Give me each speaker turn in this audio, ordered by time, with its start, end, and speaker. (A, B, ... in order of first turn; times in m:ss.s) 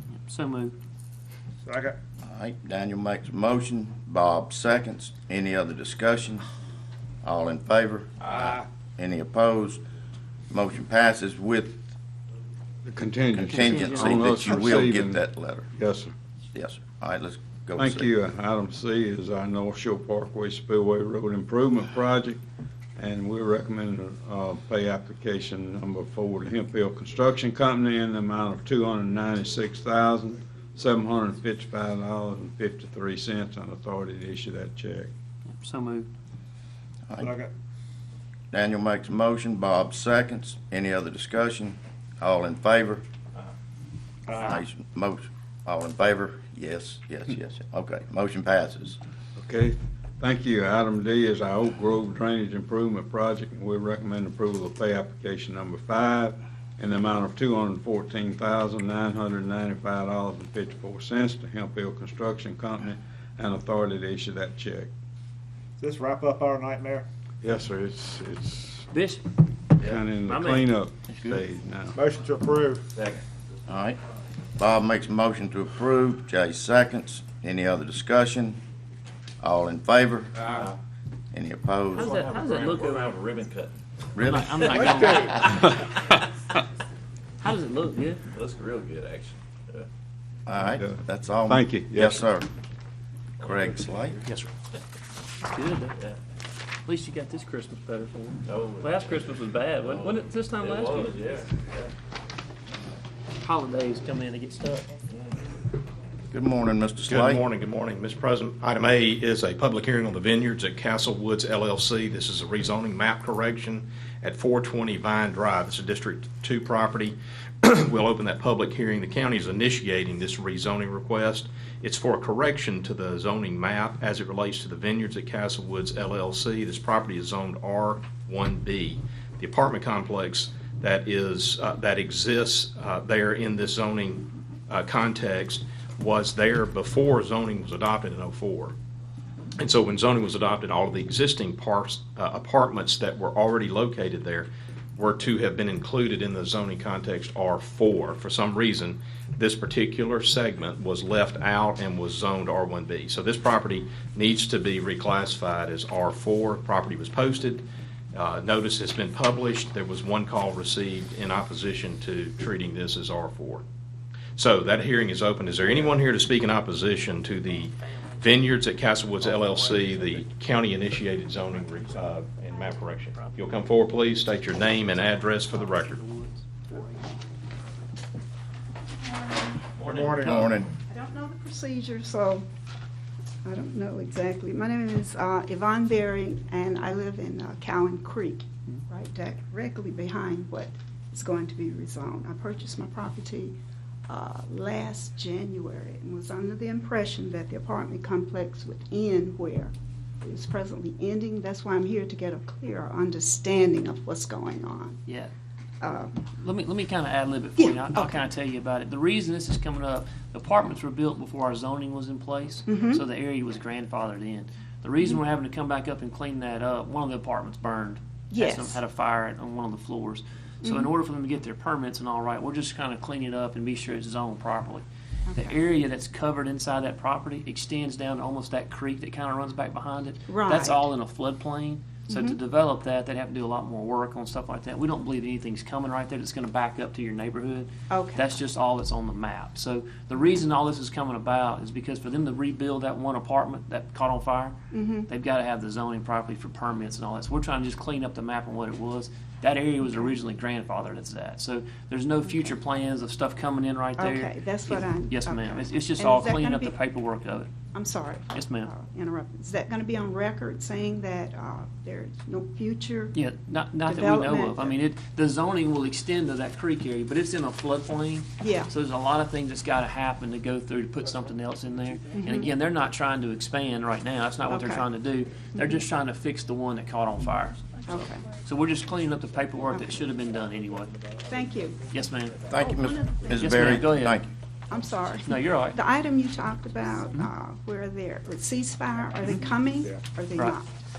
0:00.2-0:00.7 A
0:01.6-0:01.9 B
0:02.2-0:06.4 C
0:07.2-0:09.8 C
0:08.2-0:08.6 B
0:10.5-0:11.9 C
0:12.8-0:15.2 D
0:13.3-0:15.6 C
0:13.5-0:14.5 A
0:15.8-0:16.1 D
0:16.5-0:18.1 C
0:17.8-0:22.4 D
0:23.0-0:35.1 D
0:35.5-0:36.1 A
0:37.2-0:37.5 B
0:38.5-0:43.0 C
0:44.3-0:44.6 B
0:44.4-0:49.0 C
0:49.4-1:04.9 D
1:05.8-1:07.1 B
1:07.4-1:08.9 D
1:08.9-1:09.2 A
1:09.8-1:12.0 D
1:10.2-1:10.7 A
1:11.1-1:11.4 C
1:11.9-1:12.9 B
1:13.7-1:14.0 C
1:14.6-1:18.6 C
1:19.4-1:20.5 C
1:21.3-1:22.2 C
1:21.9-1:23.2 A
1:22.3-1:23.7 E
1:24.1-1:25.1 C
1:24.2-1:25.7 A
1:24.7-1:25.3 B
1:25.4-1:26.2 D
1:27.4-1:28.2 A
1:28.3-1:29.8 E
1:30.4-1:32.5 C
1:30.6-1:32.3 D
1:33.4-1:34.2 C
1:35.4-1:36.0 A
1:36.8-1:41.4 A
1:38.4-1:39.3 E
1:39.9-1:41.8 E
1:43.4-1:45.0 A
1:46.3-1:47.4 C
1:47.1-2:18.7 F
2:19.6-2:43.6 F
2:44.4-2:56.0 F
2:47.8-2:48.2 A
2:49.2-2:50.2 A
2:51.4-2:53.7 A
2:54.4-2:57.2 A
2:59.8-3:00.1 A
2:59.8-3:00.6 B
3:00.2-3:00.7 C
3:00.9-3:02.4 G
3:03.4-3:13.6 G
3:14.1-3:25.0 G
3:25.0-3:25.3 A
3:25.8-3:26.2 G
3:26.3-4:04.5 A
3:27.6-3:28.2 G
3:32.7-3:33.0 G
3:38.3-3:38.8 G
3:40.6-3:40.9 G
3:45.3-3:45.7 G
3:50.3-3:50.8 G
3:52.1-3:52.4 G
3:57.9-3:58.3 G
4:04.7-4:05.1 G
4:05.1-4:17.5 A
4:14.0-4:16.8 G
4:17.7-4:23.2 G
4:18.3-4:18.7 A
4:23.1-4:41.0 A
4:23.8-4:24.8 G
4:28.4-4:28.7 G
4:32.2-4:32.5 G
4:34.5-4:34.8 G
4:37.9-4:38.2 G
4:41.3-4:41.8 G
4:41.9-4:42.4 A
4:42.5-4:44.3 C
4:43.3-4:44.2 A
4:44.7-4:50.7 G
4:45.2-4:45.8 A